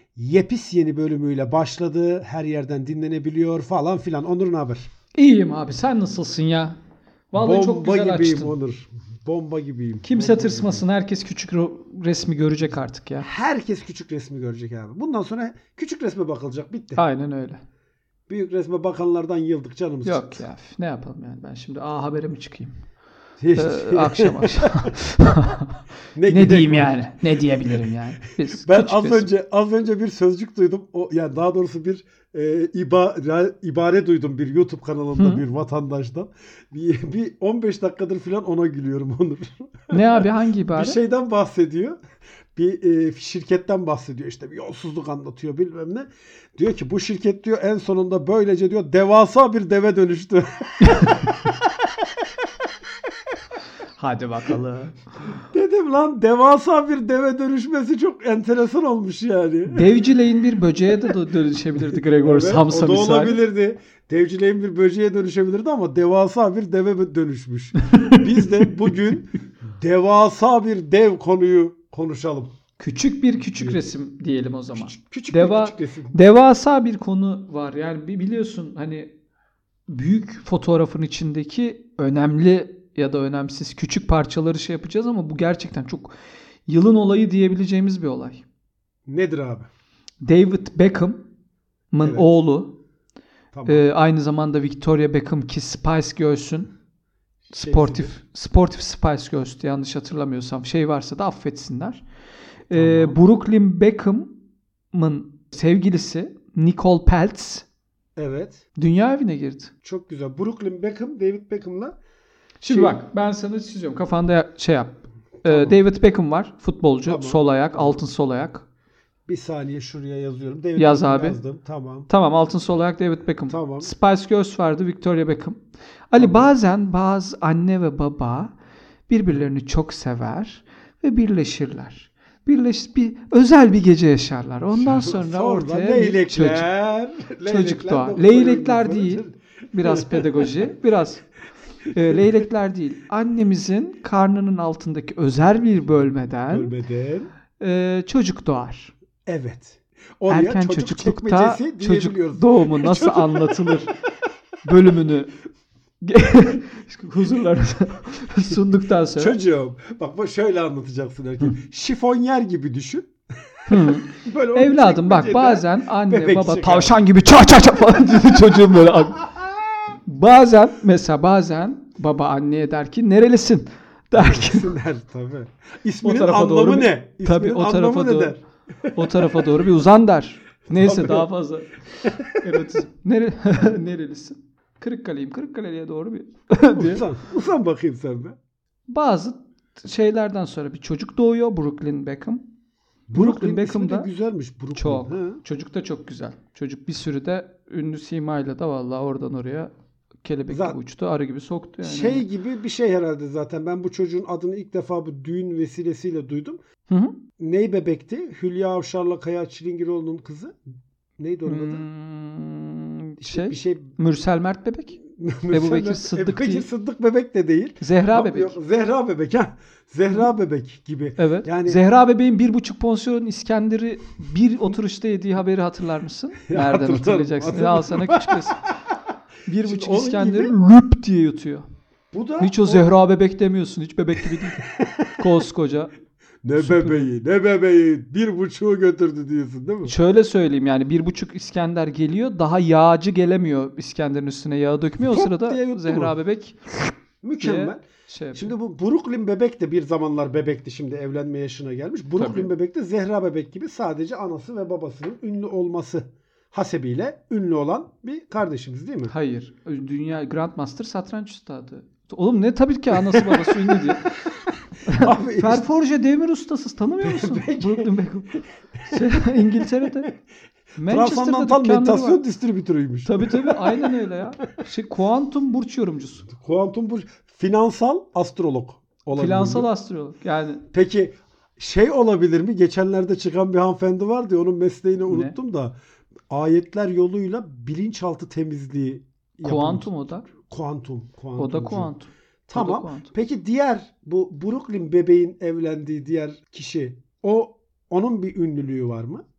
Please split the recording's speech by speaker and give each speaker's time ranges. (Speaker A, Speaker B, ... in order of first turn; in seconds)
Speaker A: 0.2-4.9, 7.4-10.9, 13.2-17.0, 18.3-20.4, 23.4-24.9, 26.2-27.0, 28.4-42.0, 42.5-52.1, 55.4-60.0, 61.8-72.5, 74.7-76.2, 89.1-89.7, 92.0-92.3, 93.5-93.8, 97.5-98.1, 102.7-103.2, 108.2-108.6, 109.8-112.0, 112.7-113.0, 115.4-115.8, 117.1-118.0, 119.3-122.1, 123.5-123.9, 126.2-126.5, 134.7-140.5, 146.5-147.3, 149.3-153.8, 159.2-166.9, 169.3-169.5, 174.2-179.4, 180.8-181.3, 182.0-182.6, 186.7-188.4, 193.1-195.4, 200.5-200.8, 201.8-206.6, 207.4-210.6, 211.2-211.8, 213.2-213.9, 215.1-221.8, 226.5-228.7, 229.6-230.6, 232.1-232.9, 234.6-235.2, 236.4-240.0, 245.0-246.1, 247.2-247.8, 248.3-259.1, 262.9-263.9, 264.9-265.7, 267.0-267.9, 268.8-270.1, 270.9-273.9, 276.3-279.7, 280.7-285.8, 286.3-291.9, 292.5-299.2
Speaker B: 5.2-6.8, 7.3-8.5, 10.0-13.3, 17.0-17.6, 20.0-22.8, 23.6-29.3, 35.1-35.4, 39.9-41.0, 50.8-51.3, 54.0-55.0, 59.7-63.4, 67.8-68.9, 72.8-79.1, 79.9-88.5, 90.2-91.2, 91.9-92.8, 93.7-96.7, 97.5-102.0, 102.7-104.4, 104.9-107.7, 108.8-109.7, 112.6-118.7, 120.8-121.4, 122.1-125.6, 126.1-128.6, 129.1-136.7, 137.4-141.3, 141.9-146.8, 147.6-148.9, 150.3-153.9, 154.6-155.4, 156.0-159.4, 163.7-169.3, 170.1-174.7, 176.0-178.4, 178.9-187.1, 188.9-192.4, 193.1-194.1, 194.8-199.7, 200.2-202.3, 206.9-207.2, 211.5-215.0, 215.5-216.7, 217.8-218.6, 221.2-228.6, 229.5-231.7, 232.4-235.9, 236.6-237.1, 239.8-248.5, 252.2-252.5, 259.1-264.2, 264.8-270.2, 270.8-272.2, 273.1-276.3, 279.1-280.6, 285.1-285.4, 289.4-290.3, 291.4-293.1